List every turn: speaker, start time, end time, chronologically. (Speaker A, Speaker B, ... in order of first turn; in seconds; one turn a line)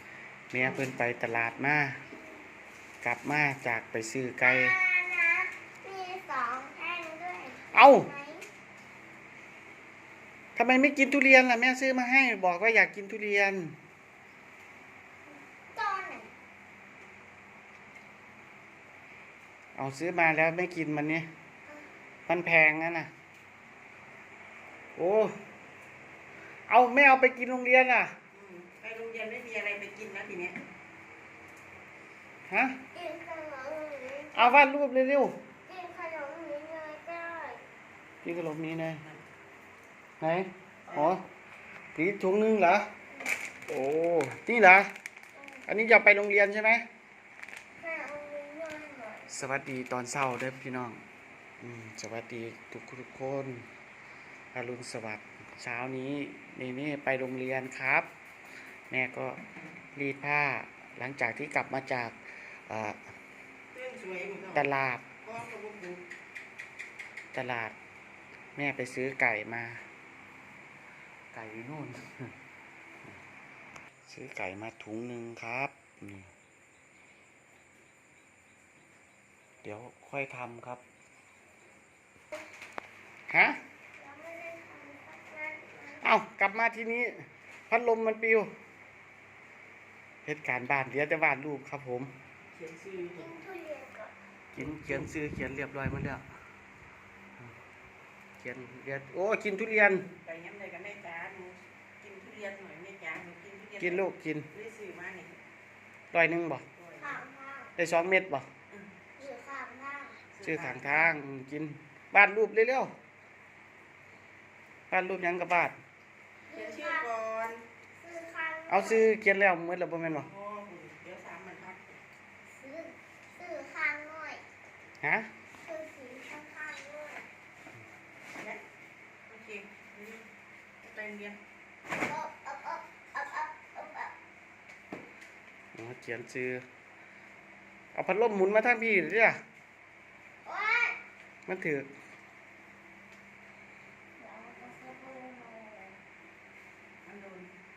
Speaker A: 0.5-2.0
Speaker B: 0.6-0.9
Speaker A: 3.0-4.8
Speaker C: 4.4-8.5
Speaker A: 7.7-8.1
Speaker A: 10.6-13.8
Speaker C: 15.7-16.3
Speaker A: 19.8-21.3
Speaker A: 22.3-23.1
Speaker A: 25.0-25.3
Speaker A: 26.7-28.1
Speaker B: 28.3-30.6
Speaker A: 32.5-32.8
Speaker C: 32.9-34.5
Speaker A: 34.3-35.4
Speaker C: 35.7-37.6
Speaker A: 38.2-39.0
Speaker A: 40.2-41.2
Speaker B: 40.9-41.2
Speaker A: 42.0-42.9
Speaker A: 43.7-44.9
Speaker C: 45.3-45.7
Speaker A: 45.7-46.8
Speaker C: 47.8-49.3
Speaker A: 49.3-51.0
Speaker A: 51.6-53.7
Speaker A: 54.5-58.1
Speaker A: 58.9-59.4
Speaker A: 60.0-63.0
Speaker B: 63.7-66.0
Speaker A: 64.5-65.1
Speaker A: 67.3-67.8
Speaker A: 68.6-69.8
Speaker A: 71.3-72.3
Speaker A: 74.1-76.3
Speaker A: 79.6-80.8
Speaker A: 83.3-83.6
Speaker C: 84.0-86.1
Speaker A: 86.0-88.5
Speaker A: 90.2-92.1
Speaker B: 92.5-93.3
Speaker C: 93.0-94.1
Speaker A: 94.5-96.2
Speaker B: 94.6-95.1
Speaker A: 98.4-100.1
Speaker B: 99.8-105.4
Speaker A: 103.8-104.5
Speaker A: 106.1-106.7
Speaker B: 106.8-107.2
Speaker C: 107.0-107.7
Speaker A: 107.8-108.5
Speaker C: 109.2-110.2
Speaker B: 110.3-111.2
Speaker A: 110.4-112.9
Speaker A: 114.9-115.8
Speaker C: 116.5-117.1
Speaker B: 116.5-117.6
Speaker C: 118.0-119.1
Speaker A: 118.7-120.3
Speaker B: 120.1-121.9
Speaker C: 122.5-124.4
Speaker A: 125.0-125.3
Speaker C: 125.6-127.3
Speaker B: 128.4-128.6
Speaker B: 129.3-130.3
Speaker B: 130.8-131.4
Speaker C: 132.0-134.1
Speaker A: 135.7-136.6
Speaker A: 137.9-139.4
Speaker C: 140.4-141.0
Speaker A: 141.5-141.9
Speaker C: 144.2-146.0
Speaker B: 147.0-147.5